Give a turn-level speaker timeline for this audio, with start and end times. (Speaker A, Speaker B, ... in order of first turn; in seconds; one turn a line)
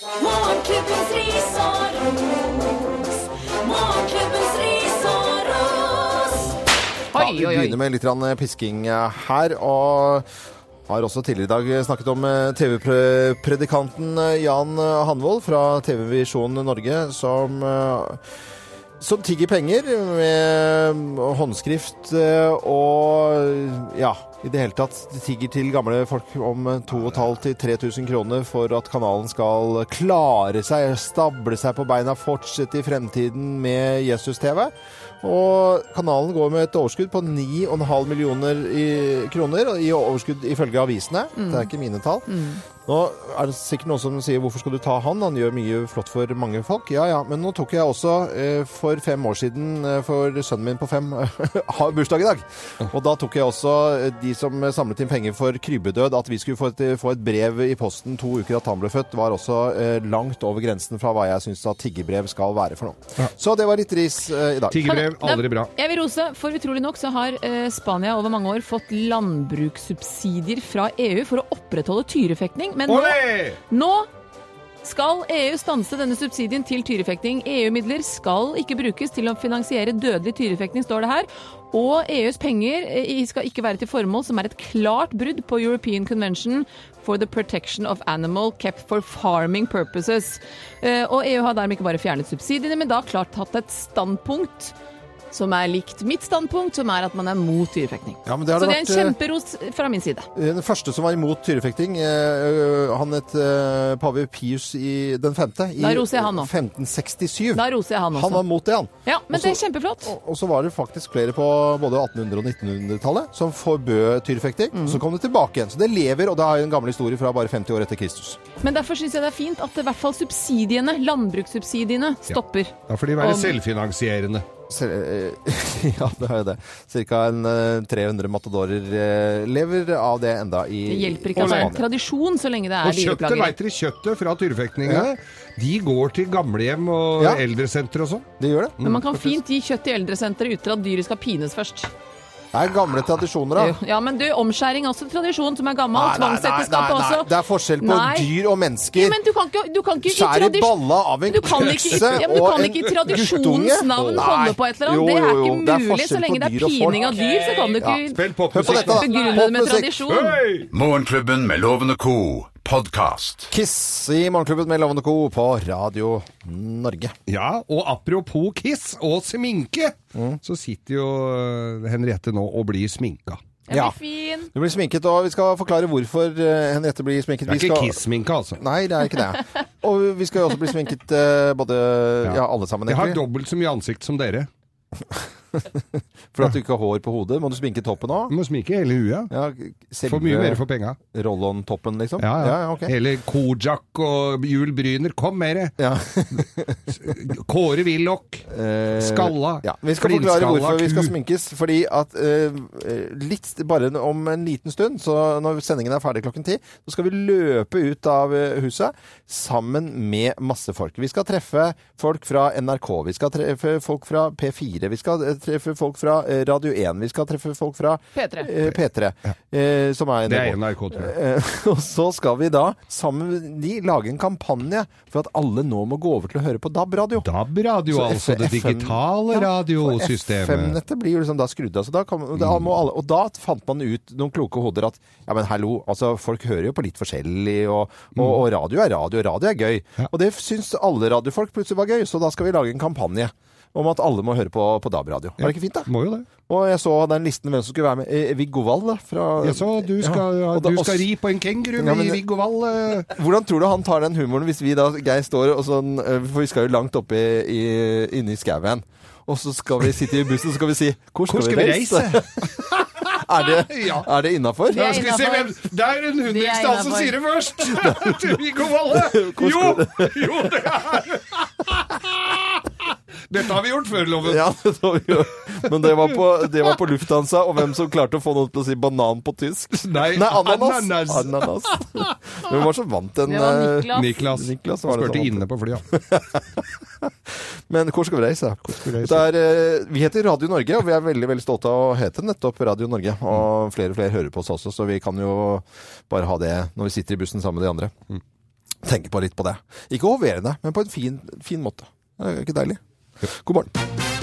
Speaker A: 0.1-6.5
Speaker B: 7.1-7.8
Speaker C: 7.1-10.2
Speaker C: 10.9-18.2
Speaker C: 19.0-65.0
Speaker B: 41.4-41.7
Speaker B: 42.3-42.6
Speaker D: 64.7-65.7
Speaker B: 64.8-74.1
Speaker D: 72.8-73.6
Speaker B: 74.8-94.7
Speaker B: 95.3-100.3
Speaker C: 98.2-99.2
Speaker C: 100.3-118.4
Speaker B: 105.8-106.5
Speaker B: 107.5-108.4
Speaker B: 109.0-110.1
Speaker B: 114.7-115.0
Speaker B: 118.6-123.5
Speaker D: 122.3-124.5
Speaker C: 124.7-131.8
Speaker B: 130.9-133.5
Speaker D: 131.4-131.7
Speaker D: 132.8-138.3
Speaker C: 138.4-138.8
Speaker B: 138.8-141.9
Speaker C: 142.5-143.8
Speaker B: 143.6-148.3
Speaker C: 145.9-149.2
Speaker B: 148.9-160.4
Speaker C: 150.0-157.2
Speaker D: 153.9-154.3
Speaker A: 157.5-157.8
Speaker C: 157.8-160.0
Speaker D: 158.0-159.1
Speaker D: 160.1-160.7
Speaker E: 160.7-163.5
Speaker C: 163.5-167.1
Speaker D: 167.3-173.4
Speaker C: 170.1-170.4
Speaker B: 173.7-174.5
Speaker C: 173.7-173.9
Speaker C: 174.5-178.0
Speaker D: 177.5-178.6
Speaker C: 178.6-183.2
Speaker D: 182.2-184.5
Speaker C: 185.1-188.3
Speaker D: 188.3-189.3
Speaker C: 189.3-192.9
Speaker D: 190.1-191.0
Speaker D: 192.2-195.7
Speaker C: 195.8-196.8
Speaker D: 196.9-198.4
Speaker C: 198.5-227.3
Speaker D: 199.0-201.1
Speaker B: 218.1-218.5
Speaker D: 220.3-221.1
Speaker D: 227.2-230.8
Speaker C: 227.9-251.1
Speaker D: 232.4-232.7
Speaker D: 238.2-238.4
Speaker D: 245.4-246.3
Speaker D: 249.4-253.1
Speaker C: 251.8-252.2
Speaker C: 253.1-265.0
Speaker D: 261.3-264.1
Speaker B: 264.7-265.6
Speaker D: 264.7-272.7
Speaker B: 266.2-267.2
Speaker C: 267.7-268.2
Speaker C: 268.9-270.6
Speaker D: 273.3-274.5
Speaker C: 274.2-287.1
Speaker D: 275.8-276.1
Speaker D: 279.8-282.1
Speaker B: 283.3-284.1
Speaker D: 283.9-285.8
Speaker C: 287.7-297.9
Speaker D: 288.6-289.3
Speaker C: 298.8-303.7